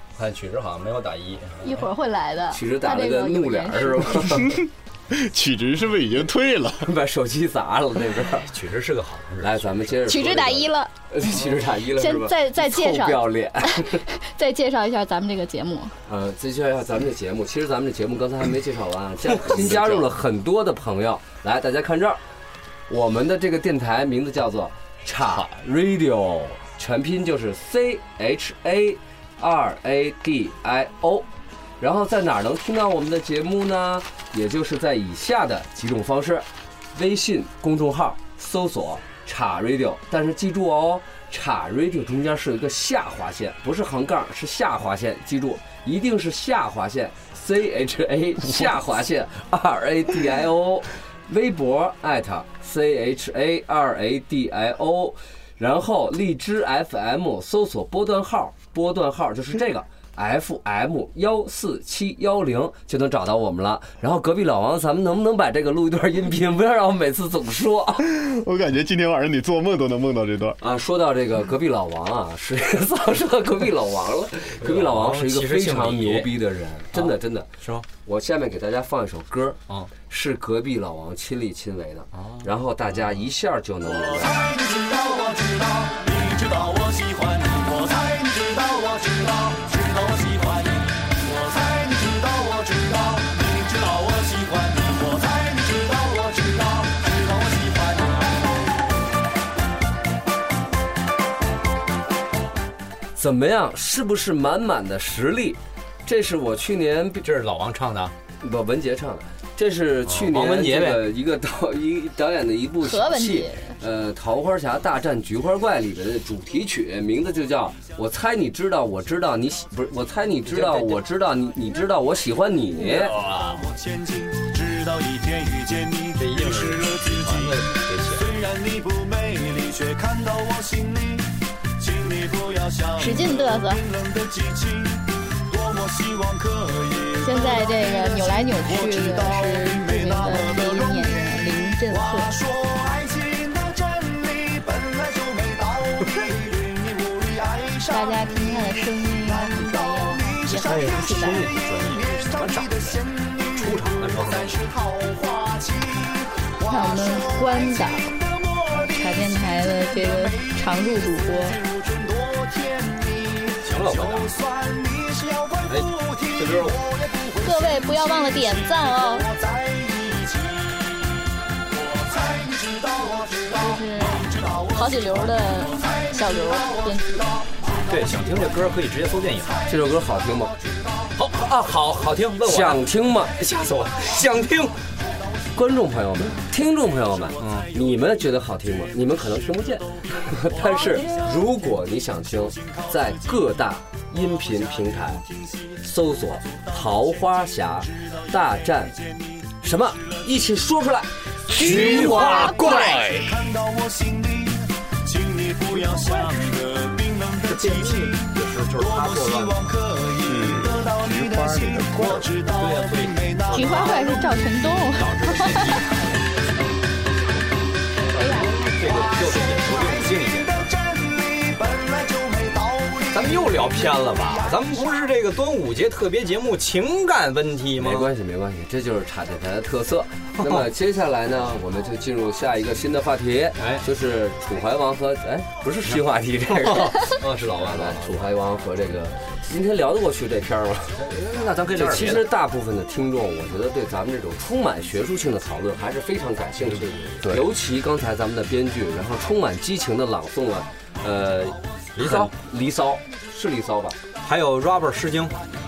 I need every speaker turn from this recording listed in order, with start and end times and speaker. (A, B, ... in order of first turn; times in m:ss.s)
0:00.1-0:01.8 A
0:01.6-0:04.2 B
0:02.5-0:04.6 C
0:04.6-0:06.9 D
0:06.8-0:08.5 C
0:08.4-0:10.0 A
0:09.4-0:14.0 C
0:10.0-0:10.9 B
0:11.9-0:15.9 B
0:16.1-0:22.2 C
0:19.5-0:20.0 D
0:22.9-0:31.2 C
0:31.8-1:08.1 C
1:08.0-1:10.6 D
1:10.6-1:17.5 C
1:14.6-1:16.4 A
1:16.9-1:17.8 A
1:18.0-1:24.4 C
1:22.1-1:22.5 A
1:23.8-1:38.5 E
1:43.2-1:47.2 C
1:47.2-1:48.1 A
1:48.4-2:03.1 C
1:50.0-1:51.1 A
1:52.8-1:53.7 B
2:00.4-2:01.0 A
2:02.8-2:03.7 A
2:03.4-2:51.2 E
2:06.2-2:08.4 A
2:13.0-2:13.8 B
2:17.2-2:22.3 B
2:26.0-2:26.3 A
2:27.9-2:31.5 B
2:30.6-2:34.6 A
2:36.7-2:38.1 B
2:38.7-2:41.6 B
2:43.6-2:44.3 A
2:45.7-2:46.8 A
2:47.4-2:49.3 B
2:51.7-3:01.8 E
2:53.6-2:57.3 B
2:57.8-2:59.6 A
2:59.7-3:00.5 C
3:01.2-3:04.8 A
3:02.4-3:03.3 C
3:03.7-3:05.6 E
3:05.5-3:15.2 C
3:07.1-3:11.6 E
3:07.4-3:07.7 A
3:12.4-3:13.4 E
3:14.2-3:15.8 E
3:15.8-3:19.0 C
3:16.5-3:16.8 E
3:17.9-3:18.4 E
3:18.9-3:19.5 E
3:19.6-3:22.5 C
3:21.5-3:23.3 A
3:21.6-3:23.1 D
3:21.7-3:34.3 E
3:25.7-3:26.3 A
3:27.4-3:29.8 A
3:30.2-3:32.3 D
3:32.5-3:36.1 A
3:33.5-3:35.8 B
3:38.1-3:40.7 A
3:38.1-3:38.5 B
3:38.2-3:45.0 E
3:43.1-3:48.1 A
3:47.8-4:01.0 C
3:50.4-3:50.7 A
3:53.6-3:53.8 A
3:55.8-3:58.3 A
4:00.9-4:02.3 A
4:01.7-4:14.0 C
4:06.6-4:07.2 A
4:12.0-4:12.3 A
4:14.2-4:15.4 A